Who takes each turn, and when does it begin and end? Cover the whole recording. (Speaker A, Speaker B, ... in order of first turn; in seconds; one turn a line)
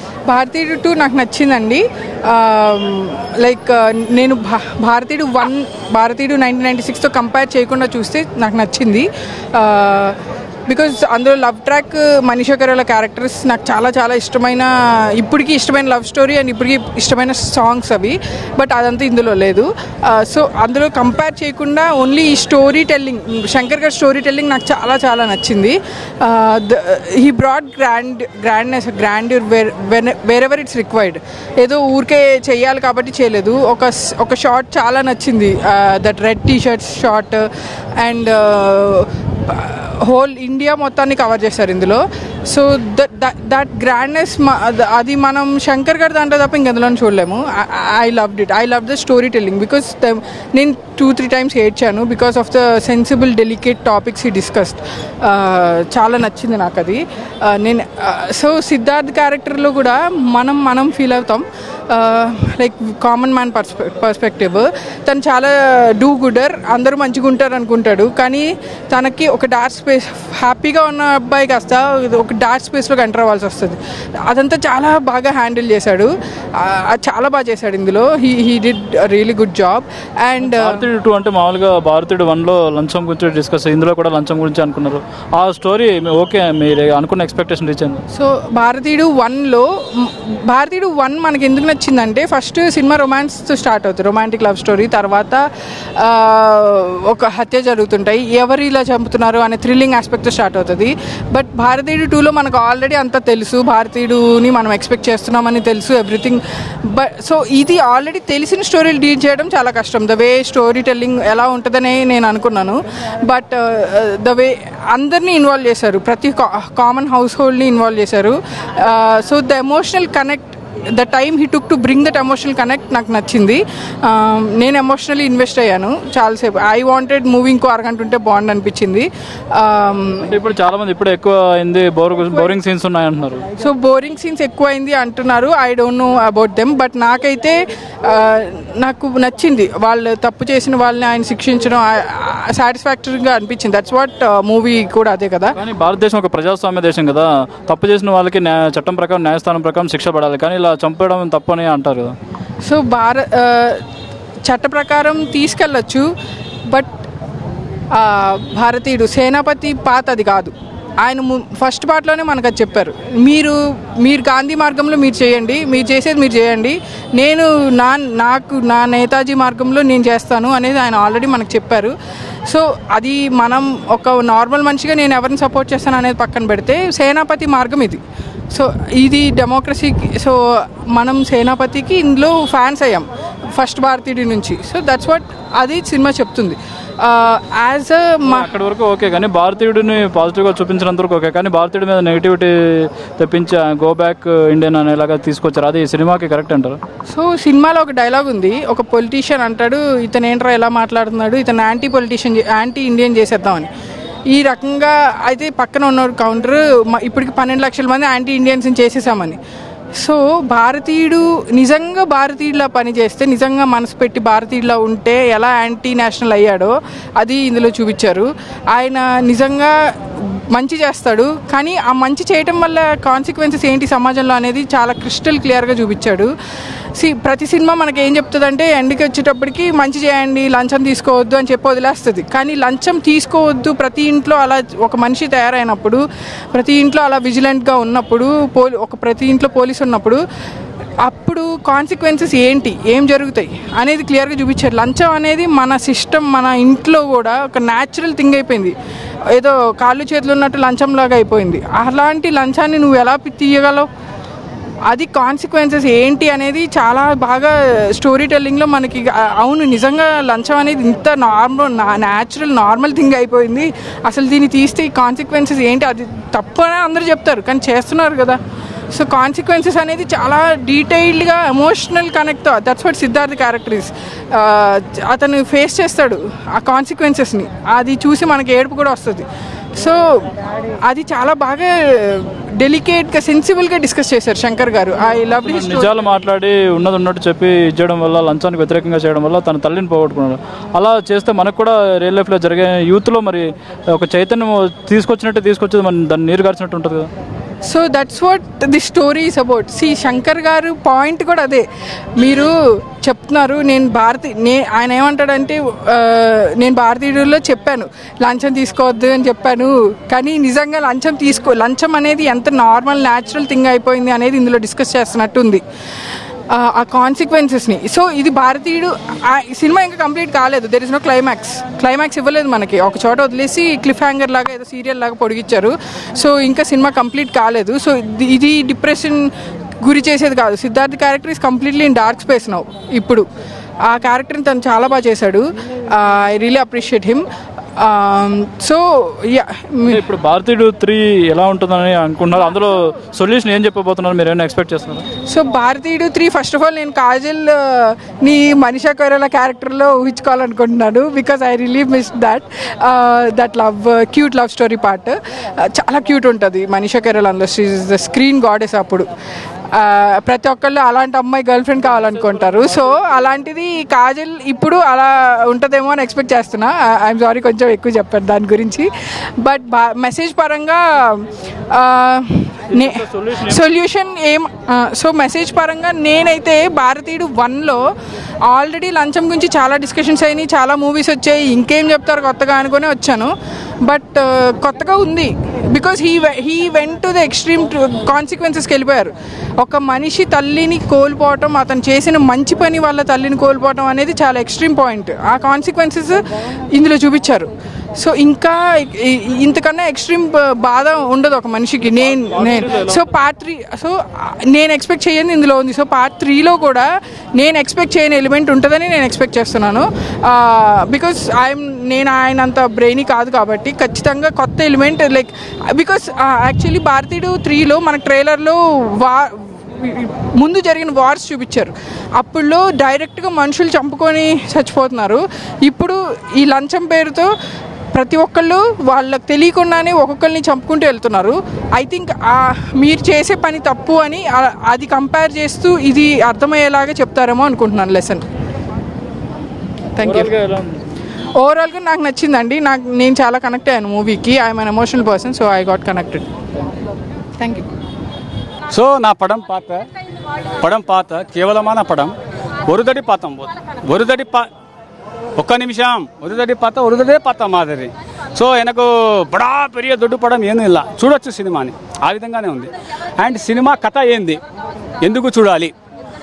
Speaker A: 0.3-10.2
Speaker A: 10.7-37.5
Speaker A: 38.0-80.8
Speaker B: 80.4-88.0
Speaker A: 88.1-95.4
Speaker A: 96.0-130.3
Speaker B: 130.2-133.4
Speaker A: 133.6-145.6
Speaker B: 145.6-152.2
Speaker A: 152.6-153.8
Speaker A: 154.5-156.1
Speaker A: 156.7-157.0
Speaker A: 157.9-171.9
Speaker A: 172.5-188.5
Speaker B: 188.3-196.8
Speaker A: 197.1-203.7
Speaker A: 204.3-209.4
Speaker A: 210.0-226.3
Speaker A: 227.0-236.0
Speaker A: 236.5-240.2
Speaker A: 241.0-248.7
Speaker A: 249.3-253.9
Speaker A: 254.9-268.4
Speaker A: 268.9-279.2
Speaker A: 279.8-280.3
Speaker A: 280.9-285.9
Speaker B: 285.4-297.1
Speaker A: 297.6-301.7
Speaker A: 302.2-315.6
Speaker A: 316.5-333.2
Speaker A: 333.9-337.2
Speaker A: 337.8-340.0
Speaker B: 339.9-345.0
Speaker A: 345.3-359.1
Speaker A: 359.7-377.9
Speaker B: 372.7-373.6
Speaker A: 378.5-427.3
Speaker B: 402.2-403.0
Speaker A: 427.9-438.3
Speaker A: 440.0-440.3
Speaker B: 440.0-440.8
Speaker A: 441.4-446.3
Speaker A: 447.4-447.6
Speaker C: 448.7-449.9
Speaker C: 450.6-452.1
Speaker C: 452.7-454.5
Speaker C: 455.4-464.4
Speaker C: 465.0-465.7